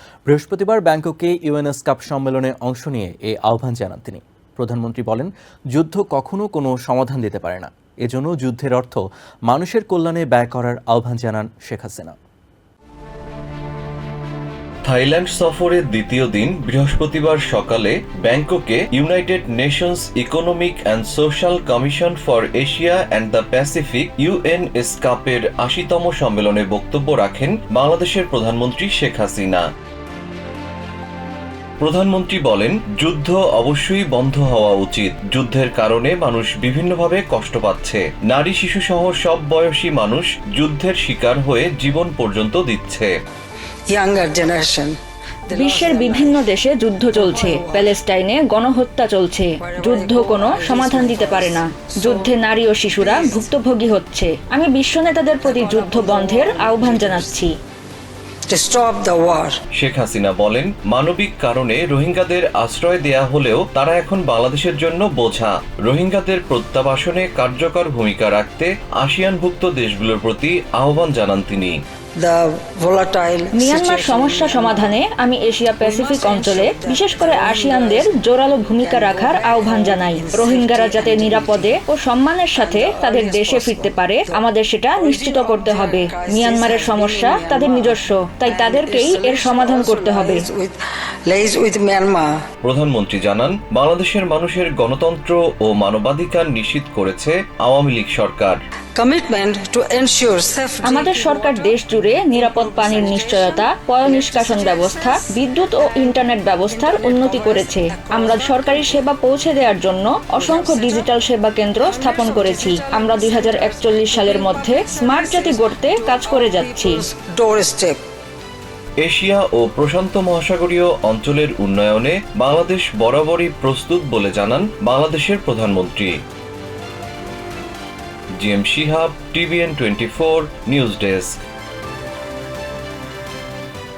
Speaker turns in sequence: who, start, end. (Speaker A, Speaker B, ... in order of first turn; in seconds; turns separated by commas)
Speaker A: 0.3-12.1, Speaker B: 14.8-29.7, Speaker B: 31.8-43.1, Speaker C: 43.9-45.0, Speaker C: 45.5-46.5, Speaker D: 45.5-57.5, Speaker C: 47.1-48.0, Speaker C: 49.6-52.4, Speaker C: 52.9-53.5, Speaker C: 55.4-57.4, Speaker C: 58.5-59.5, Speaker B: 59.8-71.8, Speaker C: 72.2-75.0, Speaker D: 73.5-90.5, Speaker C: 75.8-81.8, Speaker C: 82.5-92.4, Speaker B: 92.6-98.6, Speaker C: 98.9-109.1, Speaker D: 100.8-117.0, Speaker C: 110.4-111.1, Speaker C: 111.8-118.0, Speaker B: 119.0-126.2, Speaker B: 128.4-131.3